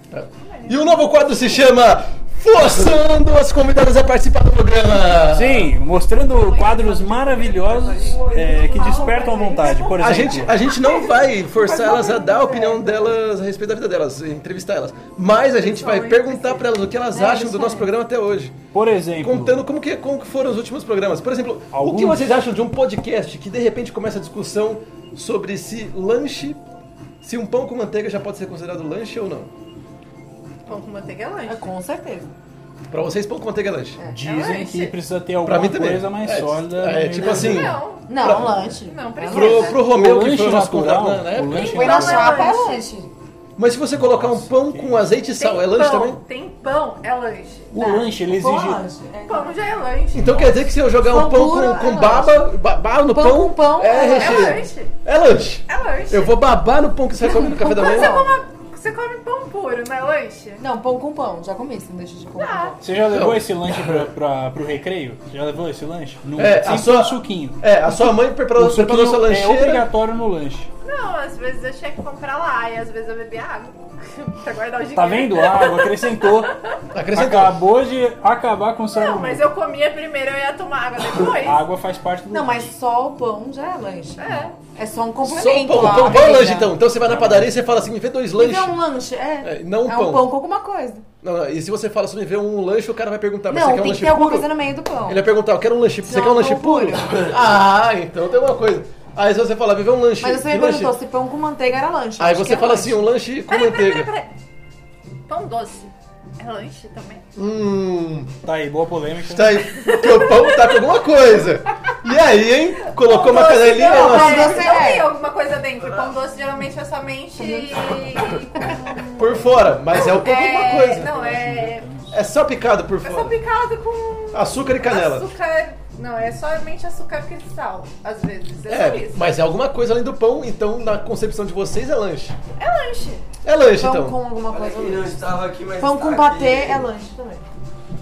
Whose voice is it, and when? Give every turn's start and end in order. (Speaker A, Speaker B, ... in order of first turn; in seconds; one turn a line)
Speaker A: 0.1-5.7
Speaker B: 0.4-1.8
Speaker C: 5.3-10.6
Speaker B: 6.3-11.0
Speaker D: 8.0-10.0
Speaker A: 10.0-18.6
Speaker D: 10.8-13.1
Speaker B: 15.6-16.6
Speaker D: 17.1-17.9
Speaker C: 18.7-19.6
Speaker A: 19.2-26.6
Speaker C: 21.7-22.4
Speaker A: 27.2-29.5
Speaker B: 30.7-31.7
Speaker D: 31.5-32.3
Speaker A: 32.9-34.0
Speaker C: 34.1-37.8
Speaker B: 34.2-35.0
Speaker A: 35.4-38.8
Speaker B: 37.2-39.8
Speaker D: 38.1-39.7
Speaker A: 39.3-41.9
Speaker C: 39.7-42.5
Speaker D: 41.5-43.1
Speaker B: 41.6-42.9
Speaker A: 43.6-46.2
Speaker C: 43.9-45.1
Speaker B: 45.4-48.0
Speaker C: 47.7-48.9
Speaker D: 47.8-49.6
Speaker B: 49.3-50.8
Speaker A: 50.1-58.2
Speaker D: 51.0-52.5
Speaker D: 53.1-54.7
Speaker B: 54.0-54.9
Speaker B: 55.7-56.4
Speaker D: 57.2-58.3
Speaker B: 57.6-60.6
Speaker D: 60.6-62.8
Speaker B: 62.4-62.8
Speaker C: 62.8-70.7
Speaker A: 63.0-64.1
Speaker A: 66.4-69.9
Speaker B: 70.8-76.6
Speaker C: 74.9-76.5
Speaker A: 76.9-77.6
Speaker C: 77.1-79.5
Speaker B: 78.9-81.6
Speaker C: 81.2-82.7
Speaker D: 82.3-86.8
Speaker B: 84.2-84.6
Speaker A: 85.2-88.8
Speaker C: 85.8-86.1
Speaker C: 87.0-87.5
Speaker D: 88.3-91.0
Speaker A: 89.4-90.3
Speaker A: 91.2-94.5
Speaker D: 93.5-95.2
Speaker A: 95.1-101.0
Speaker D: 96.0-97.4
Speaker D: 100.2-103.1
Speaker A: 102.2-104.1
Speaker B: 103.5-104.3
Speaker B: 105.3-107.2
Speaker A: 107.3-108.3
Speaker C: 108.4-109.6
Speaker A: 109.2-114.8
Speaker B: 109.7-110.9
Speaker B: 112.9-119.3
Speaker D: 113.7-115.1
Speaker D: 117.4-119.0
Speaker A: 119.2-121.4
Speaker B: 119.9-121.9
Speaker C: 121.1-122.2
Speaker A: 122.1-123.4
Speaker B: 123.0-129.3
Speaker A: 124.3-125.3
Speaker A: 128.7-132.4
Speaker B: 132.6-133.2
Speaker A: 133.4-134.2
Speaker D: 133.8-135.2
Speaker E: 134.5-136.9
Speaker D: 135.8-137.4